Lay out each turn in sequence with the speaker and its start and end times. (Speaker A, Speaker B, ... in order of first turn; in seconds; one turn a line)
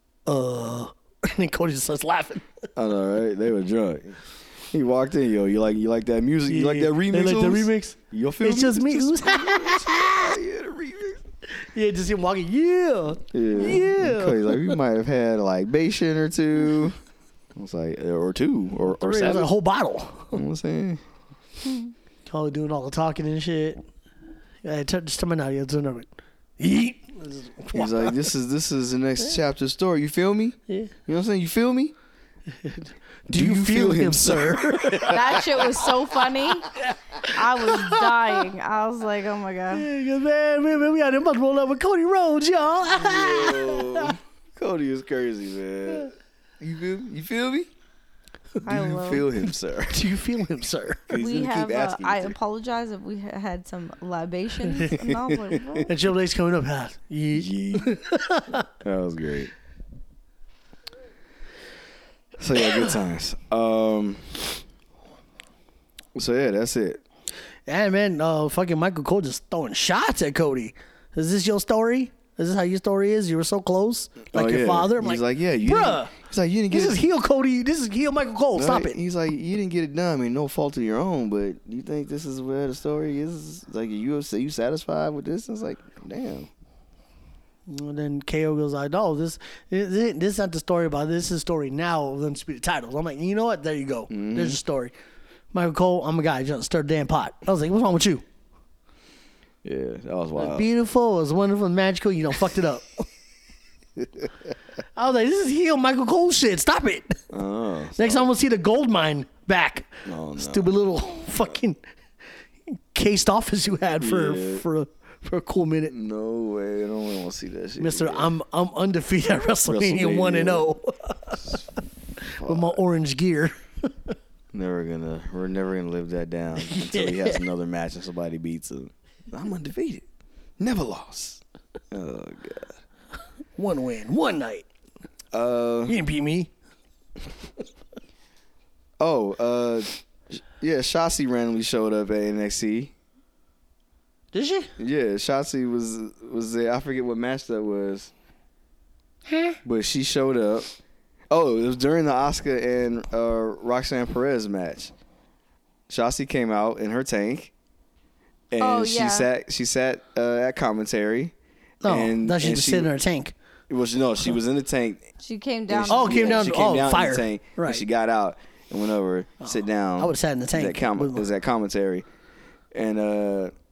Speaker A: 0.3-2.5
Speaker B: 2.8-11.2
Speaker A: 6.5-10.3
Speaker A: 11.5-14.8
Speaker B: 13.3-17.0
Speaker B: 17.6-19.5
Speaker A: 18.9-20.4
Speaker B: 20.3-21.0
Speaker A: 22.3-23.8
Speaker A: 24.6-28.2
Speaker B: 27.7-31.9
Speaker A: 32.5-35.9
Speaker B: 33.3-35.5
Speaker C: 35.0-39.9
Speaker A: 36.8-38.5
Speaker A: 39.7-44.2
Speaker B: 42.9-47.7
Speaker B: 48.6-50.1
Speaker C: 48.6-49.3
Speaker A: 49.9-51.1
Speaker B: 51.1-52.4
Speaker C: 51.1-55.9
Speaker A: 54.6-55.0
Speaker B: 54.9-55.9
Speaker A: 55.8-58.6
Speaker B: 57.3-58.0
Speaker B: 58.6-59.5
Speaker B: 62.4-64.4
Speaker B: 66.2-67.0
Speaker A: 67.7-76.1
Speaker B: 74.3-77.0
Speaker A: 76.7-79.0
Speaker B: 78.5-86.5
Speaker A: 87.7-94.9
Speaker B: 94.1-94.6
Speaker A: 95.5-98.2
Speaker B: 99.6-100.7
Speaker A: 100.4-103.0
Speaker A: 105.0-107.2
Speaker B: 107.3-108.3
Speaker A: 108.0-111.8
Speaker B: 110.0-110.7
Speaker A: 112.7-115.9
Speaker B: 114.0-114.7
Speaker B: 115.9-118.3
Speaker A: 117.8-121.6
Speaker B: 119.7-120.7
Speaker A: 122.2-124.1
Speaker B: 122.4-122.8
Speaker B: 124.5-130.1
Speaker A: 126.6-127.4
Speaker B: 130.6-132.8
Speaker A: 133.6-134.7
Speaker B: 135.3-135.9
Speaker A: 135.9-136.5
Speaker B: 139.0-142.9
Speaker A: 144.3-144.7
Speaker B: 144.8-148.1
Speaker A: 149.3-149.6
Speaker B: 149.7-150.7
Speaker B: 151.3-154.9
Speaker B: 155.9-157.5
Speaker B: 158.5-161.3
Speaker C: 158.6-159.3
Speaker A: 161.8-163.3
Speaker B: 161.8-162.9
Speaker B: 163.7-165.1
Speaker C: 165.2-166.5
Speaker B: 165.7-172.1
Speaker A: 165.9-167.8
Speaker A: 169.4-171.3
Speaker B: 172.7-173.5